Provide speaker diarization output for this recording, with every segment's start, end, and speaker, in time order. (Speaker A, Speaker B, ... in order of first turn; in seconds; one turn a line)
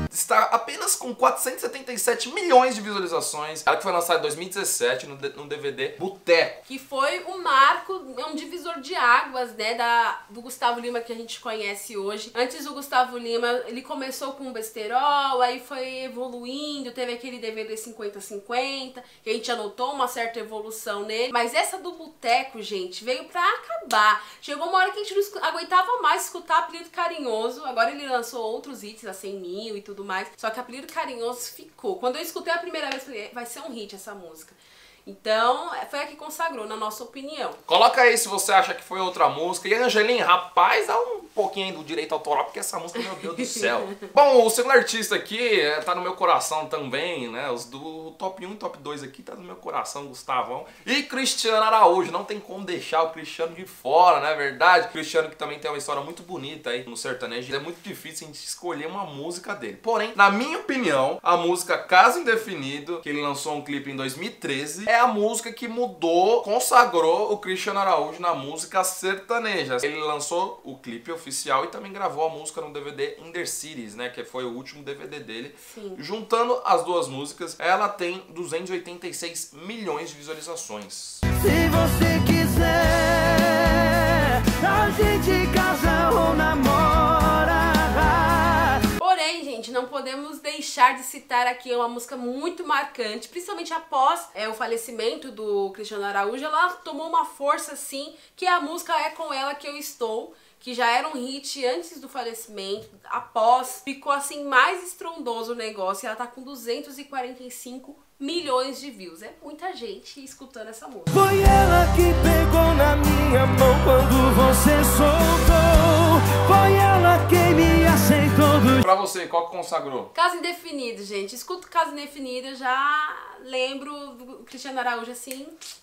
Speaker A: 0.1-6.6
Speaker B: 6.7-37.6
Speaker A: 37.7-81.2
Speaker B: 43.0-43.9
Speaker B: 75.6-76.0
Speaker C: 81.3-88.8
Speaker B: 89.0-111.3
Speaker C: 111.1-118.8
Speaker A: 118.8-120.1
Speaker B: 120.1-125.5